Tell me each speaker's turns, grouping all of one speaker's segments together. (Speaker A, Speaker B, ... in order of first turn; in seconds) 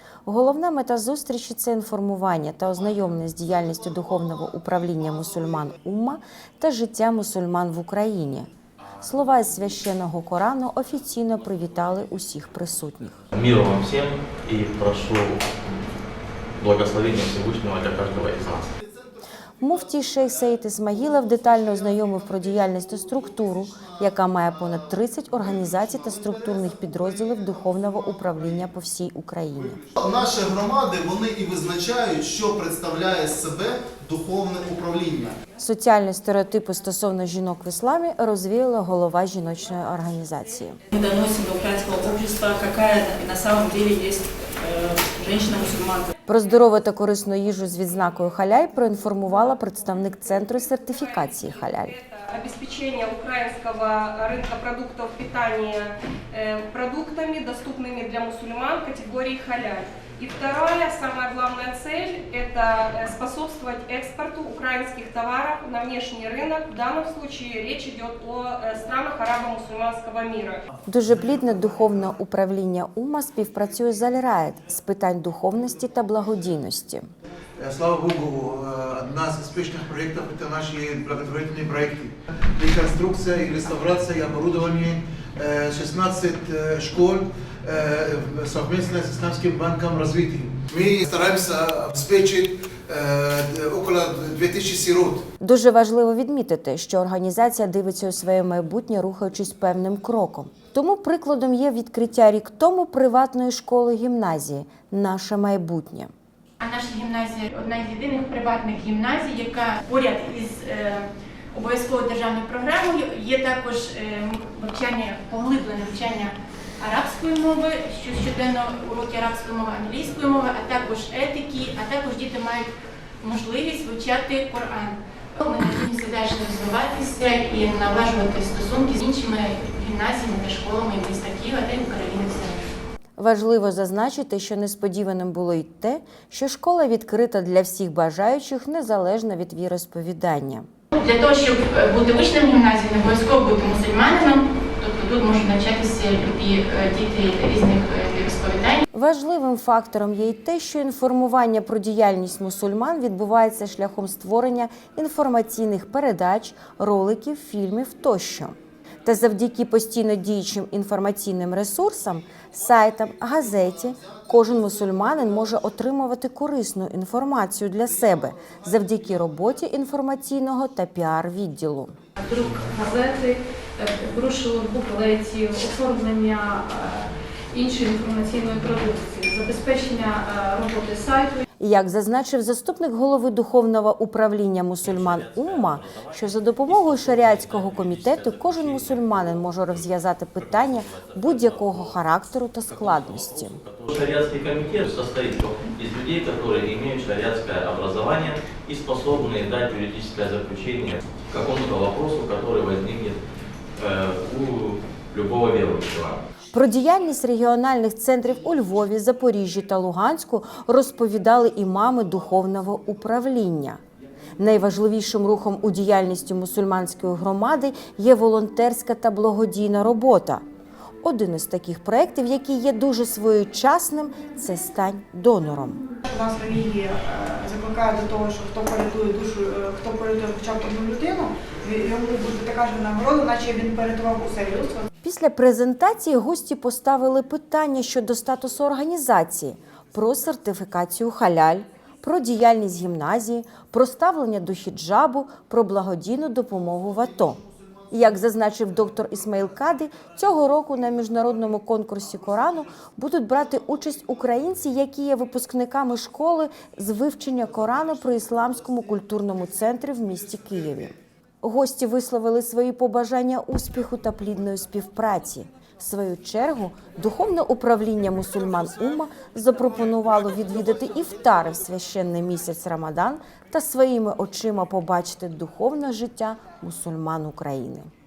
Speaker A: 0.3-8.5, 9.0-13.2, 19.6-29.8, 35.6-40.8, 46.3-52.0, 70.9-77.1, 95.4-106.1, 133.2-140.7, 148.9-171.9, 181.6-193.6, 206.5-213.8, 214.4-220.4, 221.0-225.8, 235.0-247.4, 247.9-277.9
Speaker B: 13.3-15.8, 16.6-18.7, 184.8-189.8, 190.4-192.0, 192.7-203.2, 203.8-206.2
Speaker C: 22.9-24.0, 25.5-27.8, 29.8-35.4
Speaker D: 40.9-46.1
Speaker E: 50.9-70.6
Speaker F: 71.2-71.6, 77.6-95.3
Speaker G: 106.6-122.7, 123.2-132.7, 140.9-148.8
Speaker H: 172.2-181.4
Speaker I: 226.1-234.9